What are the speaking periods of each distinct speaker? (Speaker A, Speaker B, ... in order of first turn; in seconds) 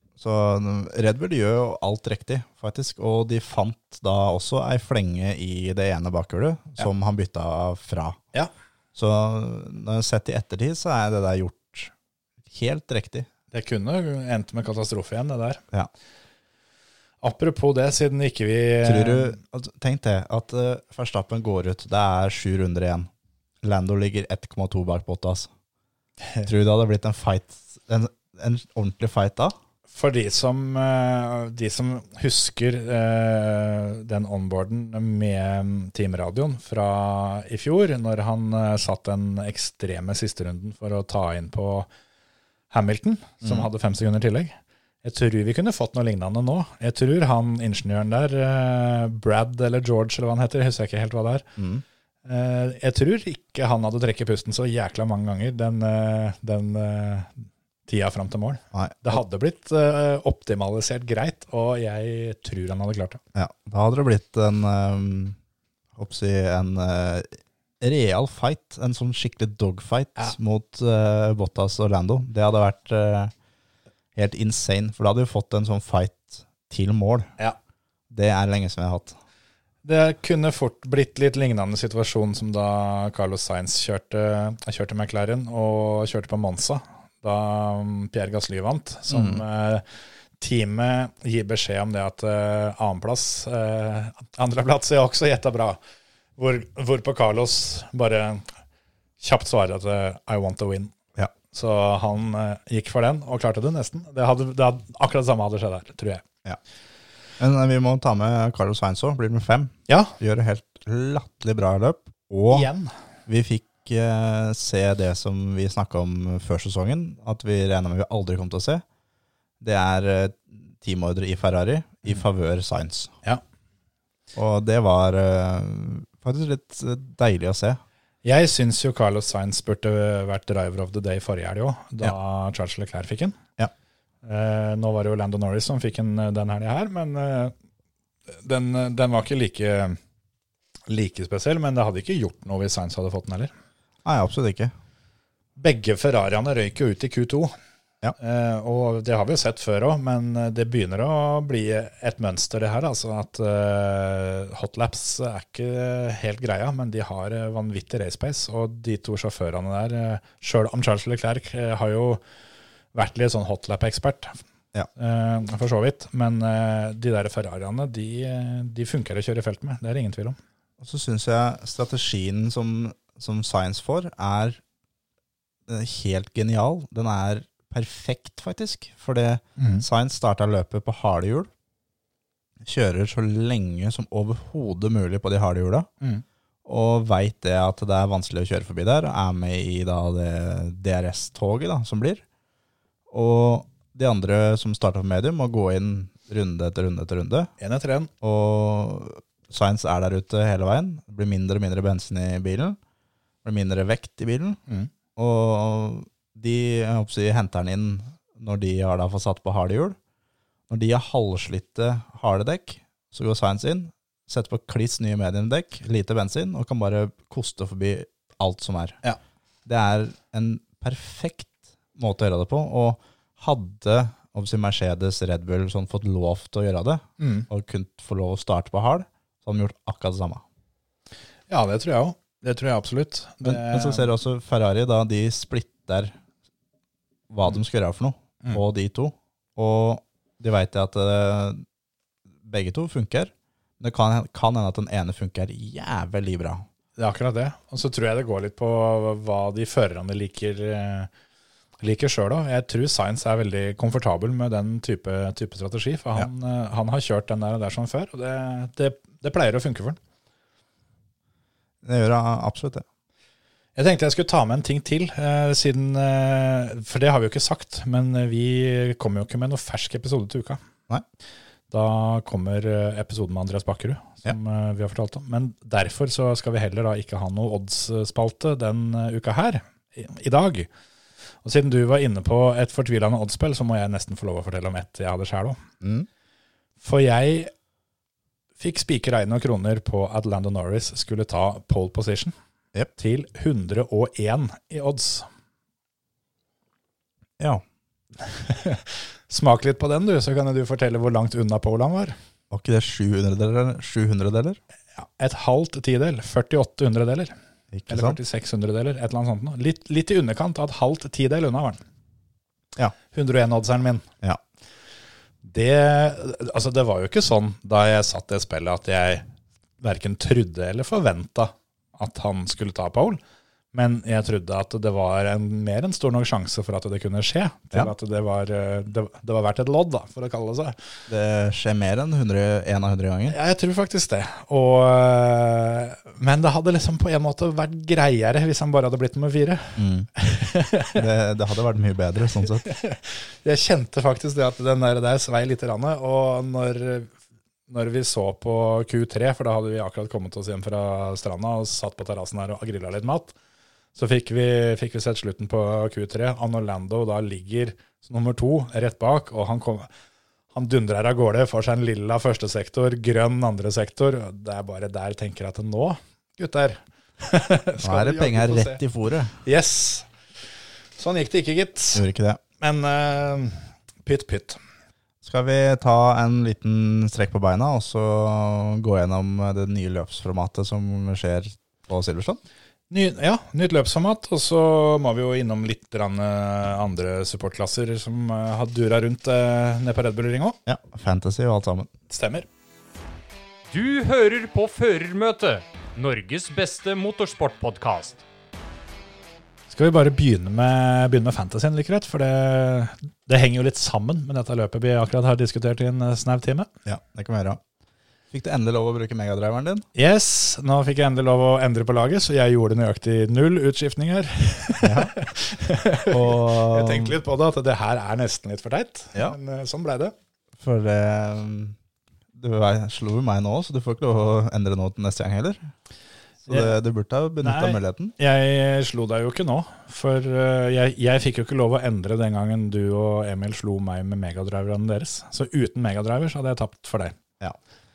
Speaker A: 0.2-8.2, 8.9-11.9, 12.5-13.3, 18.8-23.1, 23.6-25.5, 26.4-29.5, 51.6-51.8, 58.7-59.2, 63.4-65.4, 66.0-73.3, 74.2-77.3, 78.1-79.2, 89.1-89.4, 107.4-112.7, 113.3-118.8, 119.6-123.1, 124.3-127.8, 144.1-144.7, 170.8-174.6, 175.7-181.5, 182.6-185.9, 186.7-192.2, 193.1-197.5, 198.2-202.8, 203.4-204.6, 205.2-210.0, 210.7-219.0, 219.7-230.4, 233.4-236.2, 237.3-241.6, 242.4-246.6, 261.8-262.9, 285.8-286.1, 302.5-304.6, 307.7-308.2, 331.1-333.4, 339.8-340.1, 340.9-342.7, 367.8-369.4, 371.9-372.4, 375.2-382.4, 390.7-391.9, 406.9-407.6, 408.3-409.9, 414.8-415.1, 416.1-417.1, 420.6-421.8, 422.4-425.7, 426.4-428.1
Speaker B: 13.5-15.6, 17.2-19.4, 29.9-41.9, 42.7-51.5, 52.3-57.3, 57.9-63.2, 79.8-89.8, 90.4-95.8, 96.4-98.5, 99.2-101.0, 101.5-106.2, 109.9-110.1, 112.5-112.9, 128.2-133.4, 134.2-137.5, 138.4-140.0, 140.9-143.5, 145.6-147.5, 148.2-162.2, 162.9-164.4, 165.0-170.4, 179.6-179.8, 197.6-198.1, 227.2-227.5, 231.5-234.1, 247.0-251.1, 251.8-260.0, 263.8-270.6, 271.7-280.7, 281.4-285.6, 286.8-287.5, 288.6-292.3, 293.0-295.3, 298.2-302.2, 305.0-307.3, 307.9-311.8, 313.1-314.1, 315.4-319.3, 319.8-323.2, 323.7-330.8, 333.3-341.0, 342.6-347.1, 347.7-353.4, 353.9-359.9, 360.5-368.8, 369.4-370.1, 371.0-372.1, 372.6-374.6, 382.9-390.6, 392.1-392.5, 399.7-406.7, 409.9-420.1, 426.5-426.8, 427.4-437.1
Speaker C: 393.7-398.2